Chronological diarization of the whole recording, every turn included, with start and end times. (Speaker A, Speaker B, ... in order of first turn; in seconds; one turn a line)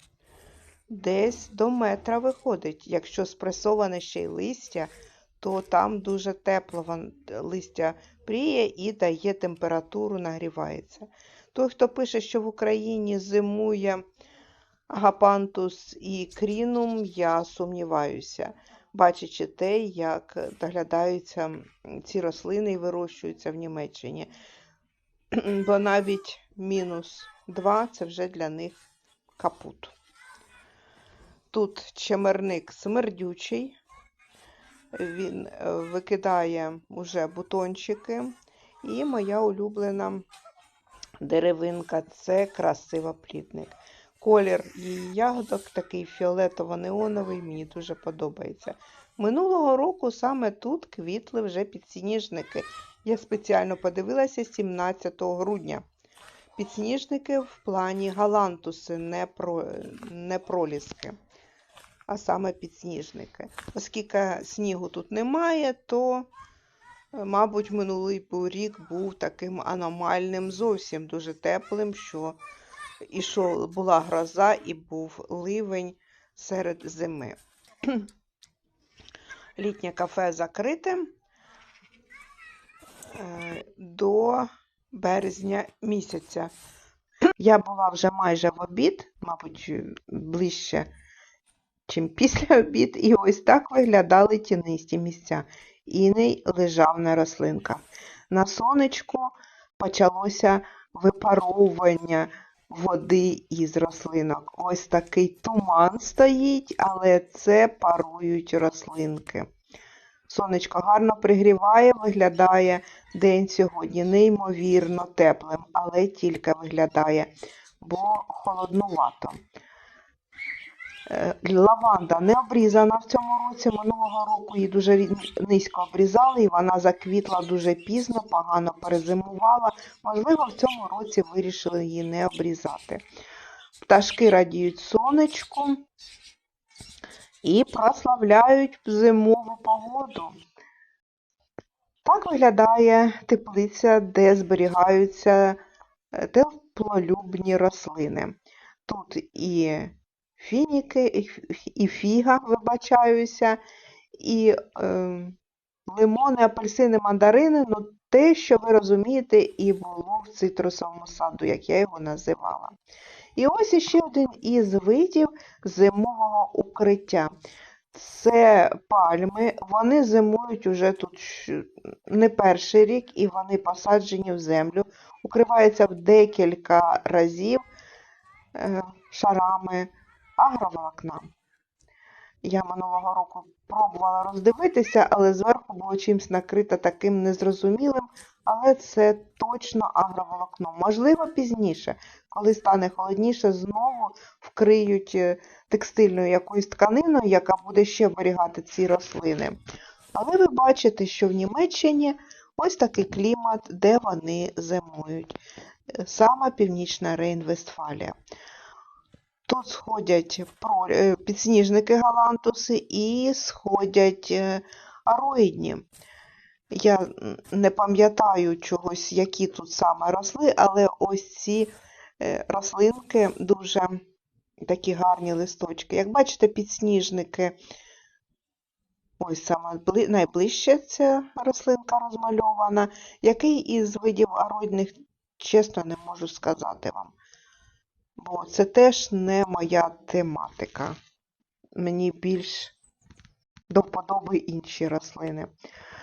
Speaker A: 0.9-14.0
Speaker A: 14.9-24.3
Speaker A: 25.3-28.8
Speaker A: 29.4-29.9
Speaker A: 31.5-33.8
Speaker A: 34.9-40.2
Speaker A: 41.2-55.8
Speaker A: 56.6-61.2
Speaker A: 62.1-66.3
Speaker A: 67.1-72.4
Speaker A: 73.1-77.3
Speaker A: 79.6-81.1
Speaker A: 83.1-86.5
Speaker A: 87.4-90.9
Speaker A: 91.9-109.5
Speaker A: 110.3-117.3
Speaker A: 117.8-119.4
Speaker A: 121.1-133.0
Speaker A: 133.8-135.8
Speaker A: 137.4-140.3
Speaker A: 142.0-145.6
Speaker A: 146.1-153.6
Speaker A: 154.2-155.4
Speaker A: 155.9-162.7
Speaker A: 163.4-167.3
Speaker A: 167.9-177.6
Speaker A: 178.6-181.3
Speaker A: 182.4-199.6
Speaker A: 200.1-205.4
Speaker A: 206.0-208.2
Speaker A: 209.5-215.8
Speaker A: 216.7-224.0
Speaker A: 224.7-227.6
Speaker A: 229.2-237.1
Speaker A: 238.2-240.9
Speaker A: 241.8-242.7
Speaker A: 243.7-245.5